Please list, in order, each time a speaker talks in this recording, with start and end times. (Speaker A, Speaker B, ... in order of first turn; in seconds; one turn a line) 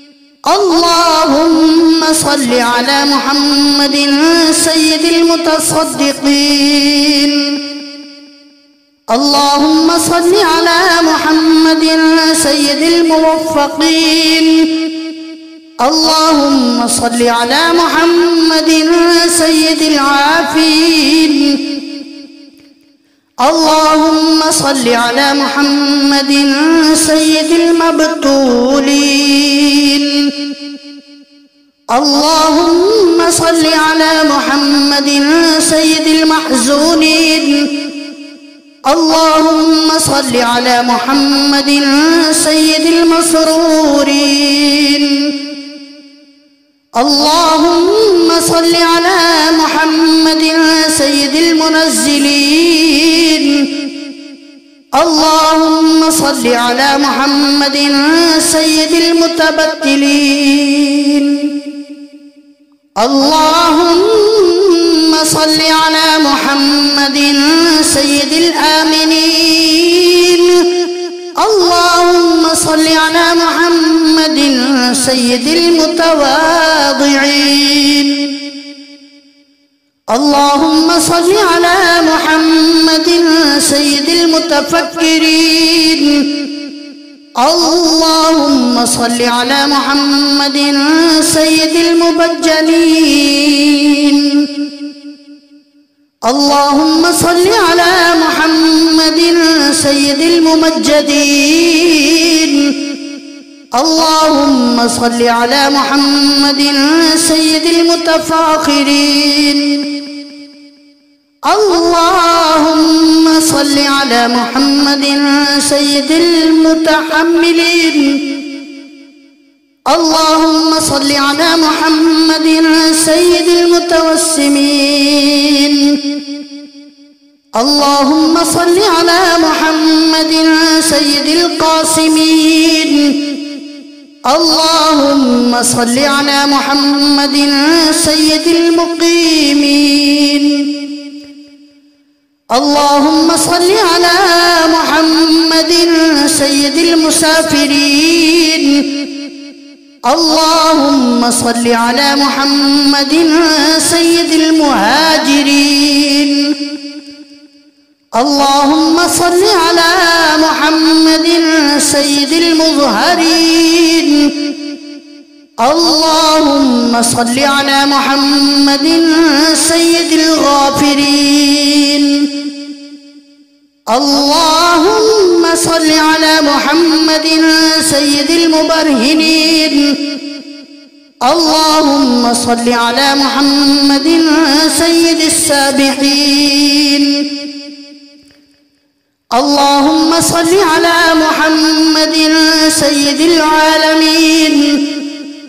Speaker A: 0.5-7.6
Speaker A: 9.1-14.9
Speaker A: 15.8-21.8
Speaker A: 23.4-30.4
Speaker A: 31.9-37.8
Speaker A: 38.9-45.4
Speaker A: 47.0-53.7
Speaker A: 54.9-61.5
Speaker A: 63.0-70.8
Speaker A: 71.4-78.4
Speaker A: 80.1-86.5
Speaker A: 87.4-94.5
Speaker A: 96.2-102.9
Speaker A: 103.7-109.9
Speaker A: 111.5-118.4
Speaker A: 119.9-126.1
Speaker A: 127.5-133.4
Speaker A: 134.2-140.9
Speaker A: 142.5-149.1
Speaker A: 150.1-156.6
Speaker A: 158.1-164.5
Speaker A: 165.6-172.3
Speaker A: 173.9-180.1
Speaker A: 181.2-187.3
Speaker A: 189.3-195.0